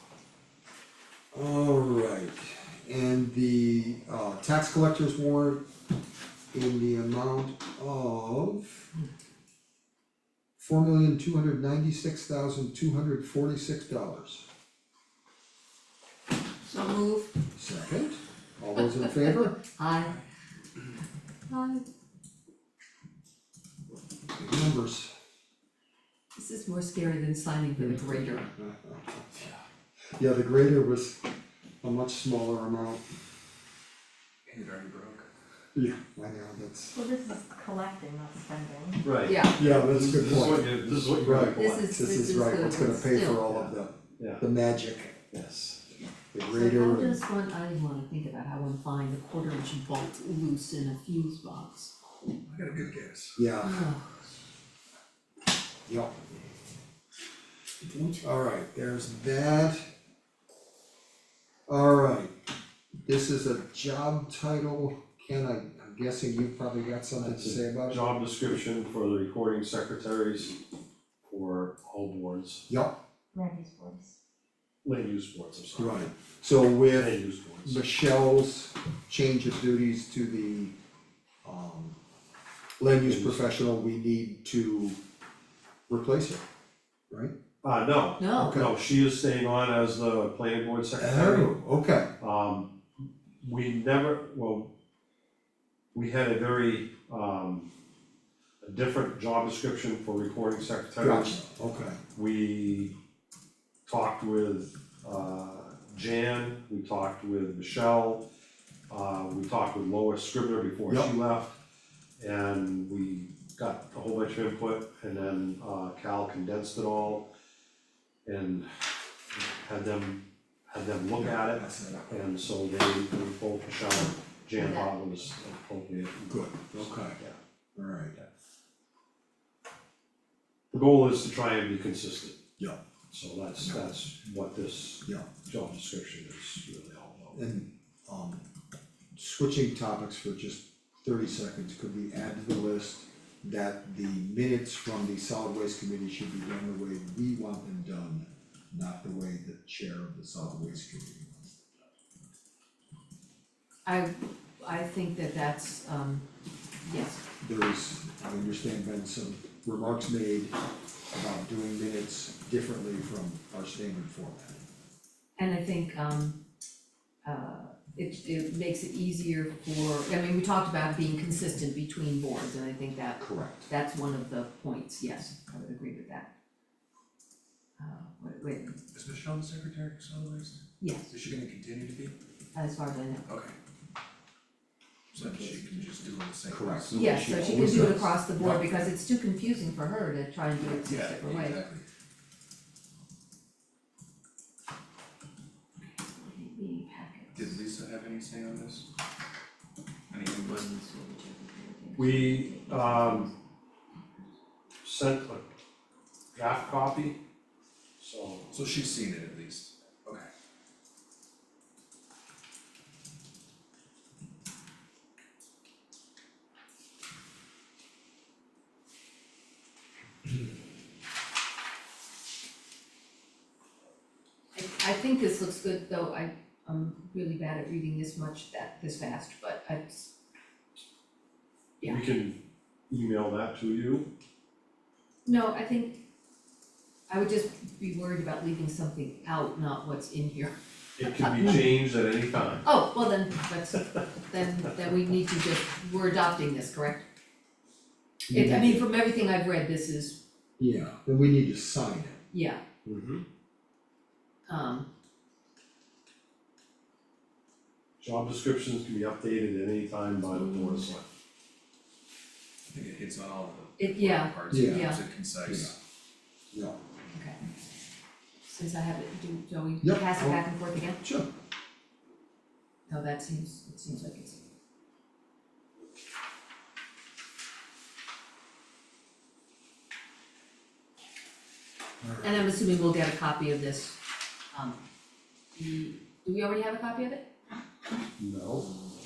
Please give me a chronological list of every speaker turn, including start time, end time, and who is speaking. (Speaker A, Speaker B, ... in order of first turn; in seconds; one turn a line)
Speaker A: 1.3-5.6
Speaker A: 6.5-8.9
Speaker A: 10.6-14.4
Speaker B: 16.6-17.3
Speaker A: 17.5-19.6
Speaker B: 19.2-20.2
Speaker B: 21.5-21.8
Speaker A: 24.3-25.1
Speaker B: 26.3-28.4
Speaker A: 27.8-29.5
Speaker A: 30.1-31.2
Speaker A: 31.8-33.0
Speaker C: 34.5-35.3
Speaker A: 35.7-37.0
Speaker D: 36.9-39.1
Speaker E: 39.0-41.9
Speaker B: 39.2-39.6
Speaker A: 39.5-45.2
Speaker B: 41.5-43.4
Speaker E: 43.5-44.4
Speaker E: 45.3-45.8
Speaker A: 46.3-47.2
Speaker B: 46.5-51.9
Speaker C: 52.4-53.4
Speaker A: 53.4-53.9
Speaker B: 53.6-54.2
Speaker A: 55.9-56.1
Speaker A: 58.1-59.9
Speaker A: 61.7-62.3
Speaker A: 63.0-68.0
Speaker E: 67.2-70.5
Speaker E: 71.2-72.6
Speaker A: 72.7-72.9
Speaker D: 73.3-74.2
Speaker E: 74.8-76.1
Speaker A: 75.7-80.7
Speaker E: 76.9-77.8
Speaker A: 81.4-82.0
Speaker A: 82.8-85.0
Speaker E: 83.0-83.4
Speaker A: 85.9-86.4
Speaker E: 87.6-91.5
Speaker B: 88.2-88.6
Speaker A: 88.4-88.7
Speaker A: 91.0-92.1
Speaker E: 92.2-94.7
Speaker E: 95.9-97.7
Speaker E: 98.6-101.4
Speaker A: 101.0-102.0
Speaker E: 102.1-102.9
Speaker E: 103.8-108.2
Speaker E: 108.9-111.5
Speaker A: 110.9-111.1
Speaker E: 112.2-117.2
Speaker E: 118.2-118.7
Speaker E: 119.3-127.4
Speaker A: 121.1-122.1
Speaker B: 124.5-124.9
Speaker A: 126.3-127.2
Speaker A: 127.8-128.1
Speaker E: 130.7-132.4
Speaker E: 133.1-137.4
Speaker A: 133.6-133.9
Speaker A: 135.0-135.3
Speaker A: 137.3-138.4
Speaker A: 139.1-151.7
Speaker B: 153.8-156.2
Speaker B: 156.8-157.2
Speaker A: 157.4-160.5
Speaker A: 161.1-164.6
Speaker B: 165.4-166.4
Speaker B: 167.2-176.3
Speaker A: 173.2-173.7
Speaker B: 177.8-178.8
Speaker C: 178.9-182.2
Speaker B: 180.8-181.1
Speaker B: 182.5-183.3
Speaker C: 183.3-183.5
Speaker C: 185.1-187.0
Speaker B: 185.2-185.5
Speaker A: 186.5-188.7
Speaker B: 186.9-191.6
Speaker C: 190.6-191.8
Speaker B: 195.9-197.6
Speaker C: 197.3-198.8
Speaker C: 200.1-200.7
Speaker B: 200.3-203.3
Speaker E: 201.9-203.3
Speaker E: 204.8-205.4
Speaker E: 206.3-207.2
Speaker E: 208.0-208.5
Speaker C: 208.5-210.3
Speaker B: 224.5-230.1
Speaker E: 231.8-232.4
Speaker E: 232.9-234.1
Speaker B: 235.2-236.0
Speaker B: 237.1-241.6
Speaker E: 241.0-242.7
Speaker B: 242.6-247.0
Speaker A: 248.3-248.8
Speaker B: 248.3-250.2
Speaker A: 250.6-252.2
Speaker B: 252.3-252.6
Speaker E: 252.8-253.2
Speaker B: 254.5-254.9
Speaker E: 258.0-261.0
Speaker B: 260.2-260.9
Speaker C: 262.7-265.7
Speaker B: 263.8-265.0
Speaker A: 264.5-264.9
Speaker A: 265.4-265.7
Speaker A: 266.5-266.8
Speaker B: 267.1-267.4
Speaker B: 268.4-271.0
Speaker A: 269.8-270.4
Speaker A: 271.0-271.3
Speaker B: 272.9-274.4
Speaker B: 282.2-284.0
Speaker B: 284.5-284.8
Speaker B: 285.5-287.3
Speaker E: 288.2-288.7